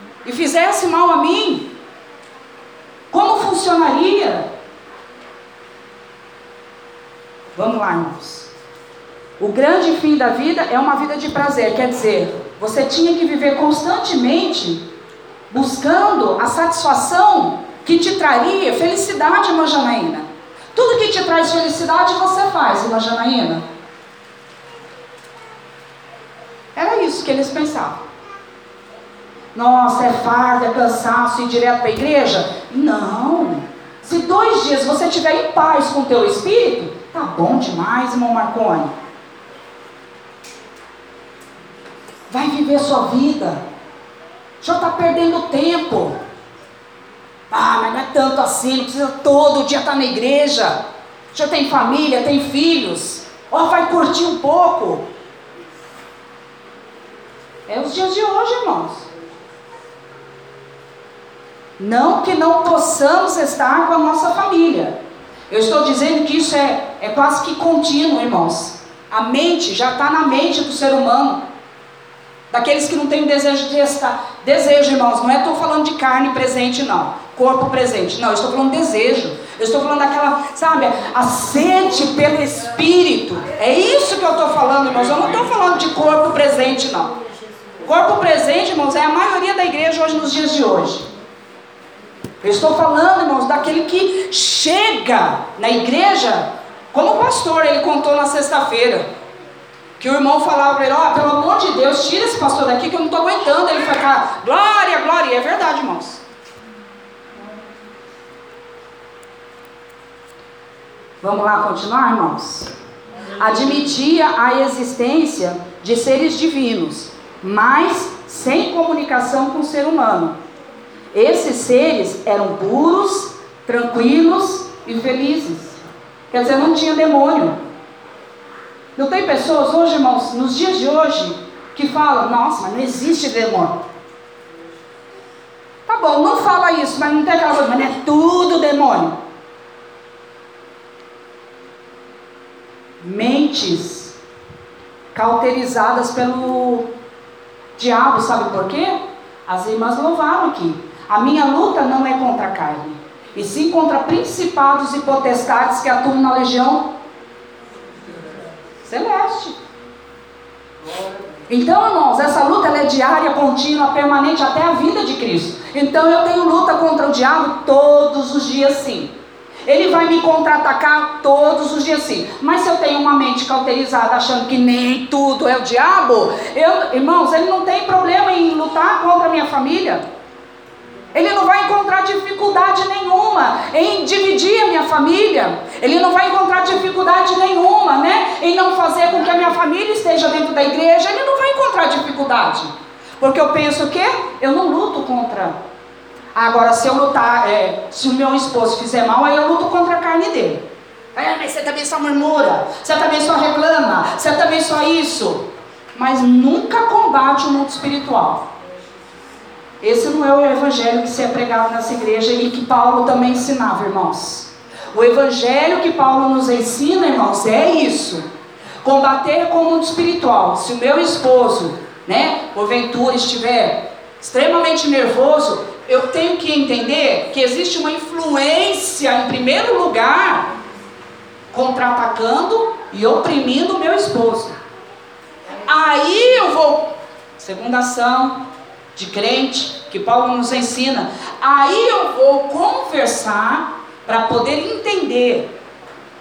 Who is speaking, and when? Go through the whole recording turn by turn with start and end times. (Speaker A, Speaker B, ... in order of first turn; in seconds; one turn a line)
Speaker A: 0.2-1.7
Speaker A: 3.1-4.5
Speaker A: 7.5-8.5
Speaker A: 9.4-14.8
Speaker A: 15.5-23.6
Speaker A: 26.8-28.0
Speaker A: 29.5-38.9
Speaker A: 42.3-43.6
Speaker A: 44.6-46.2
Speaker A: 47.5-50.8
Speaker A: 51.3-55.1
Speaker A: 57.7-59.1
Speaker A: 61.8-65.0
Speaker A: 65.5-71.4
Speaker A: 72.5-87.1
Speaker A: 87.8-91.1
Speaker A: 92.4-99.0
Speaker A: 100.0-106.2
Speaker A: 111.2-112.7
Speaker A: 113.4-120.4
Speaker A: 121.1-127.6
Speaker A: 128.9-133.8
Speaker A: 135.9-139.2
Speaker A: 143.0-144.2
Speaker A: 145.1-146.9
Speaker A: 147.8-156.9
Speaker A: 158.8-159.6
Speaker A: 161.5-169.1
Speaker A: 169.7-180.0
Speaker A: 181.1-195.6
Speaker A: 196.3-208.5
Speaker A: 209.8-218.2
Speaker A: 218.8-230.5
Speaker A: 231.5-234.6
Speaker A: 235.6-238.4
Speaker A: 238.9-245.5